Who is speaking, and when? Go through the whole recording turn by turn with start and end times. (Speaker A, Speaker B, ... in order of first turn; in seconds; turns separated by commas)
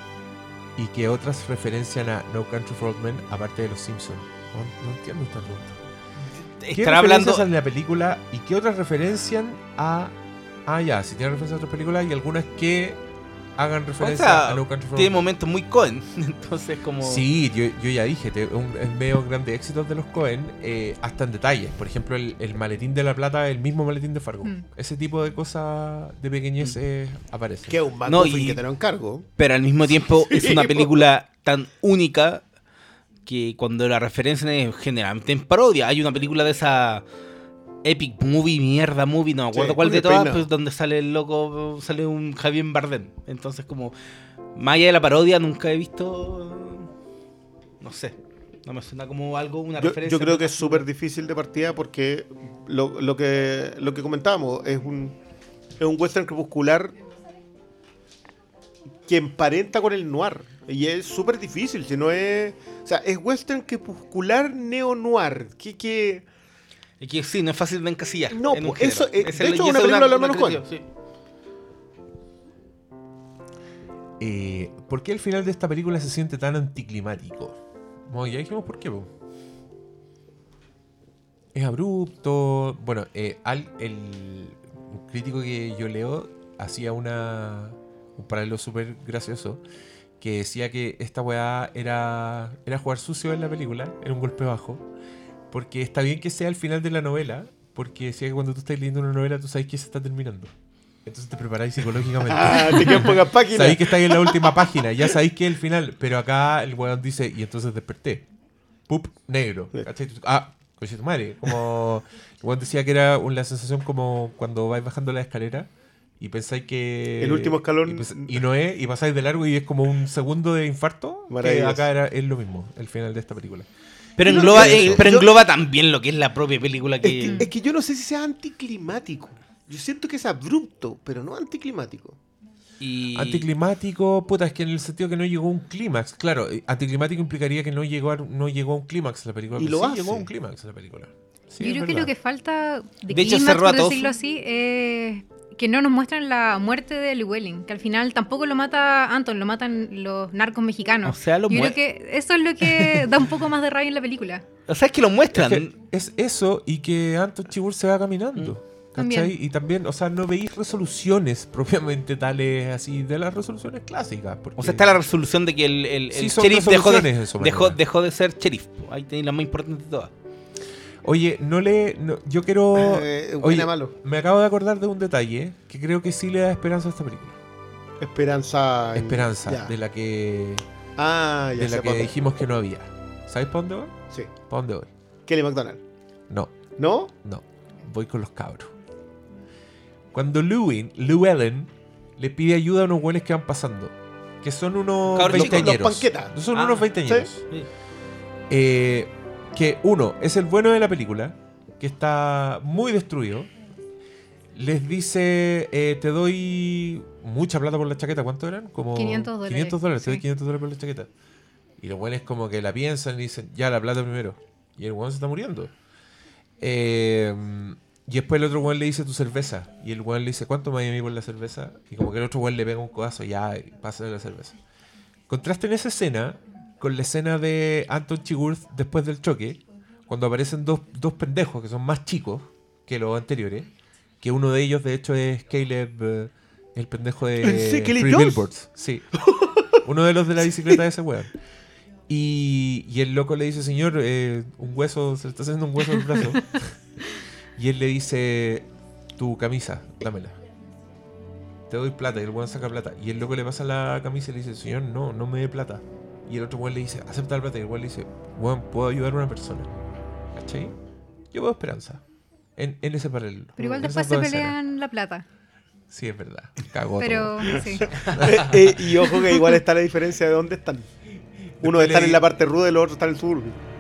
Speaker A: 0.8-5.8, Speaker B: 6.6-7.5, Speaker A: 6.7-10.2, Speaker A: 10.7-13.0, Speaker A: 13.6-15.2, Speaker B: 14.0-17.2, Speaker A: 17.0-27.9, Speaker C: 27.7-29.3, Speaker B: 28.1-28.6, Speaker B: 29.4-32.5, Speaker C: 30.3-31.0, Speaker B: 33.3-37.0, Speaker B: 37.8-44.0, Speaker C: 39.5-40.5, Speaker B: 44.5-46.9, Speaker B: 47.8-48.1, Speaker B: 48.6-50.9, Speaker C: 49.8-55.2, Speaker C: 55.8-57.0, Speaker C: 59.1-66.2, Speaker B: 67.0-70.8, Speaker C: 68.3-70.6, Speaker A: 74.2-79.1, Speaker A: 81.5-89.6, Speaker A: 90.2-94.9, Speaker A: 95.5-100.5, Speaker A: 101.0-108.3, Speaker C: 102.2-104.7, Speaker A: 108.9-123.7, Speaker C: 117.2-118.4, Speaker C: 121.3-121.9, Speaker B: 124.2-127.5, Speaker C: 124.3-125.4, Speaker A: 124.3-125.1, Speaker C: 127.0-132.2, Speaker D: 127.2-127.5, Speaker B: 132.8-133.5, Speaker A: 133.1-142.1, Speaker C: 139.6-140.3, Speaker D: 141.6-154.4, Speaker B: 143.1-144.1, Speaker B: 151.1-151.8, Speaker B: 152.6-153.3, Speaker B: 154.7-155.7, Speaker A: 155.3-165.0, Speaker D: 159.0-159.3, Speaker B: 164.6-170.1, Speaker A: 166.1-167.8, Speaker A: 171.0-177.4, Speaker C: 172.8-173.9, Speaker C: 178.0-179.7, Speaker A: 178.9-180.7, Speaker C: 181.0-182.1, Speaker A: 181.6-184.9, Speaker C: 185.3-185.8, Speaker A: 186.3-186.7, Speaker C: 186.8-187.1, Speaker A: 187.2-188.7, Speaker A: 190.1-197.4, Speaker B: 195.1-195.9, Speaker C: 195.3-196.4, Speaker B: 196.5-196.9, Speaker A: 198.5-203.5, Speaker A: 204.5-211.1, Speaker D: 208.9-210.2, Speaker A: 211.8-215.7, Speaker A: 216.6-224.6, Speaker A: 225.3-233.7, Speaker A: 234.2-239.2, Speaker C: 237.4-238.4, Speaker C: 239.3-239.7, Speaker A: 239.8-241.3, Speaker A: 242.1-246.8, Speaker A: 247.6-250.4, Speaker A: 251.7-259.7, Speaker A: 260.4-260.8, Speaker A: 261.3-262.0, Speaker A: 262.6-264.6, Speaker C: 263.6-263.9, Speaker D: 263.6-265.2, Speaker A: 265.9-268.9, Speaker D: 267.0-268.0, Speaker C: 268.0-270.9, Speaker B: 268.0-268.4, Speaker A: 271.6-272.2, Speaker C: 271.6-273.6